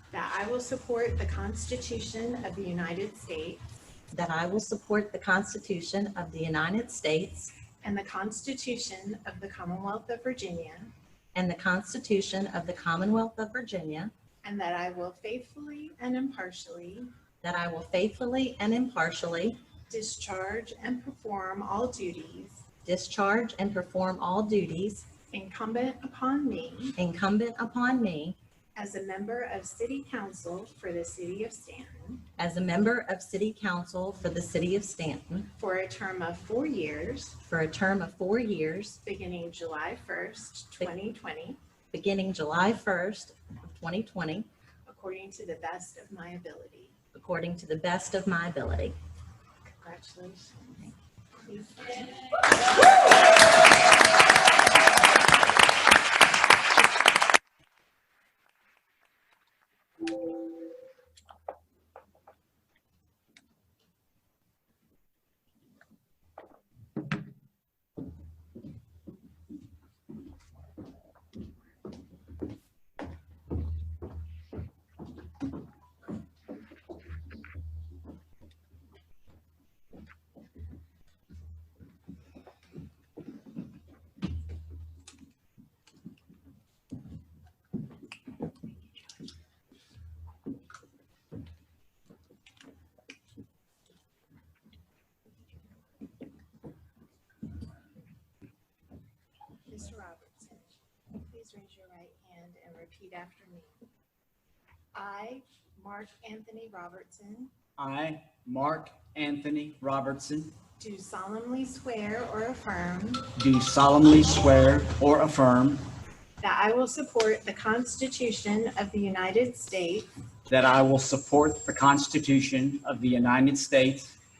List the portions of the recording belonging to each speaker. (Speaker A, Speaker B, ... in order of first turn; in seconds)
Speaker A: 0.1-3.6, 7.8-10.9, 14.4-17.1, 19.9-22.6, 25.3-26.9, 28.8-32.2, 35.6-37.4, 39.0-41.6, 44.9-47.0, 49.8-50.9, 51.4-52.4, 99.7-103.8, 104.9-107.5, 110.8-113.3, 116.4-120.1
Speaker B: 4.1-7.6, 11.3-14.1, 17.4-19.6, 22.8-25.1, 27.0-28.4, 32.4-35.5, 37.4-39.0, 41.9-44.5, 47.1-49.0
Speaker C: 107.8-110.5, 113.4-115.8, 120.5-124.2